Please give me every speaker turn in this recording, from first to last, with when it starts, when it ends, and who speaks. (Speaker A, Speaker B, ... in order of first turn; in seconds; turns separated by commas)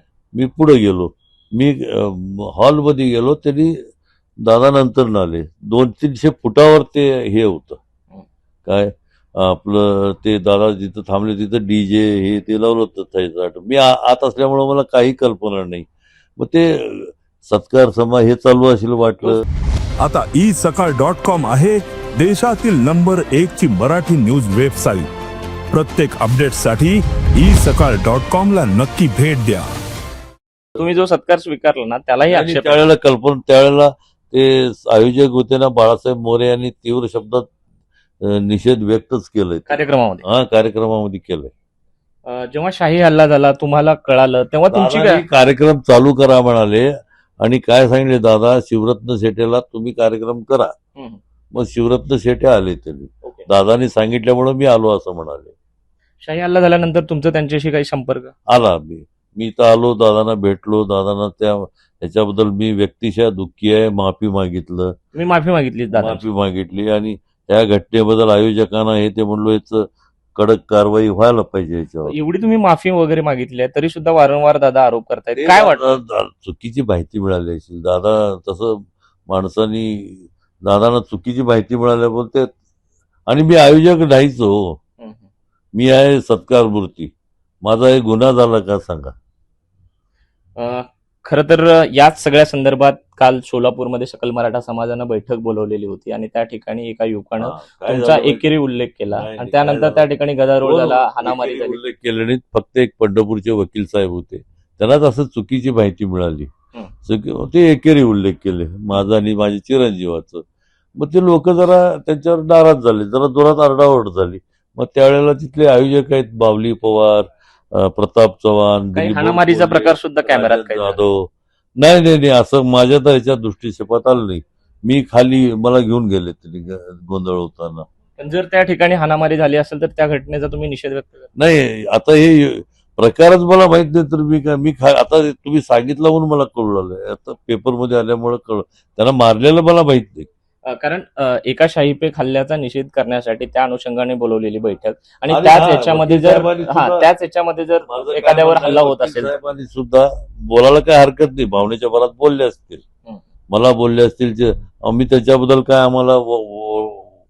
Speaker A: 0.3-3.8, Speaker A: 4.4-7.8, Speaker A: 8.6-19.4, Speaker B: 20.0-25.1, Speaker B: 25.7-29.7, Speaker C: 30.8-32.9, Speaker A: 32.3-37.5, Speaker A: 38.2-41.5, Speaker C: 39.7-40.2, Speaker C: 42.2-45.2, Speaker A: 44.7-50.7, Speaker A: 51.5-55.5, Speaker C: 56.2-58.3, Speaker A: 58.5-64.9, Speaker C: 65.1-66.2, Speaker A: 65.9-72.2, Speaker C: 72.0-75.9, Speaker A: 75.4-82.5, Speaker A: 83.3-84.8, Speaker C: 85.0-85.2, Speaker A: 85.8-87.1, Speaker A: 87.6-89.1, Speaker C: 90.6-101.8, Speaker A: 97.4-98.5, Speaker A: 99.1-100.1, Speaker A: 100.6-106.5, Speaker A: 107.0-110.4, Speaker A: 111.0-127.8, Speaker C: 118.9-121.0, Speaker C: 128.2-131.3, Speaker A: 131.4-140.3, Speaker C: 140.6-149.3, Speaker A: 145.3-147.1, Speaker A: 147.9-152.8, Speaker A: 153.5-157.2